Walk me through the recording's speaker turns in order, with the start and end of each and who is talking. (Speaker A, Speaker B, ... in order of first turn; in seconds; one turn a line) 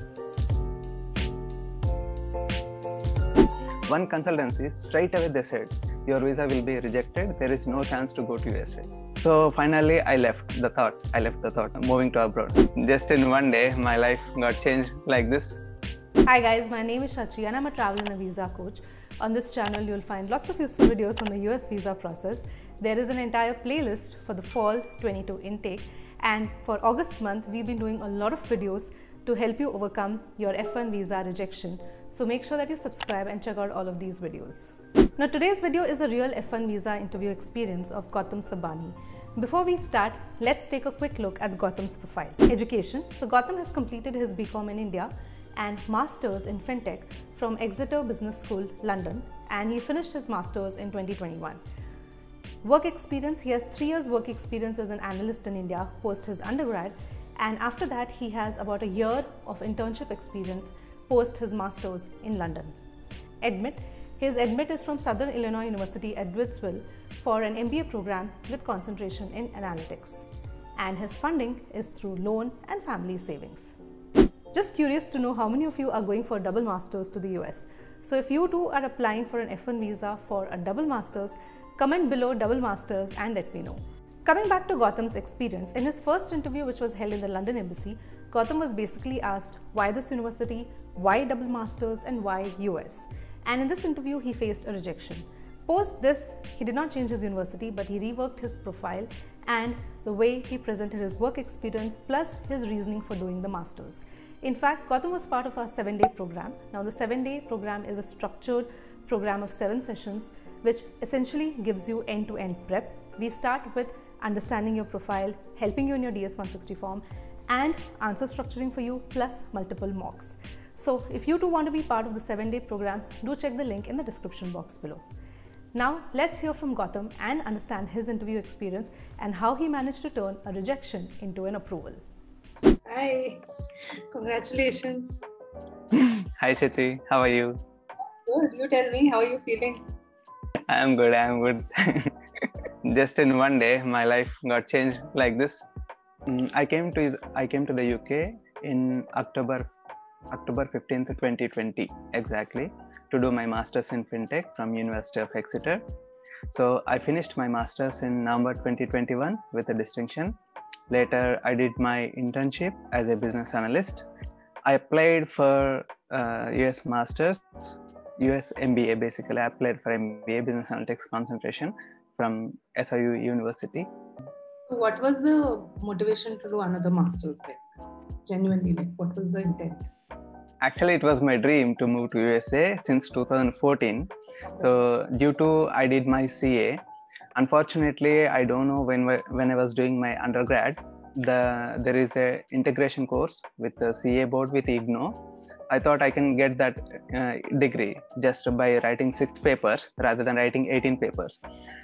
Speaker A: 3.9-15.6
Speaker B: 16.3-51.6
Speaker B: 52.6-62.7
Speaker B: 63.4-70.3
Speaker B: 70.8-73.8
Speaker B: 74.5-125.0
Speaker B: 125.7-132.0
Speaker C: 132.9-135.2
Speaker A: 135.9-137.6
Speaker C: 138.2-139.8
Speaker A: 140.7-142.1
Speaker A: 142.8-145.7
Speaker A: 146.3-149.7
Speaker A: 150.3-155.8
Speaker A: 156.5-160.4
Speaker A: 160.9-164.1
Speaker A: 164.7-173.9
Speaker C: 174.7-177.6
Speaker C: 178.2-179.9
Speaker A: 180.6-186.8
Speaker A: 187.3-195.2
Speaker A: 195.7-201.4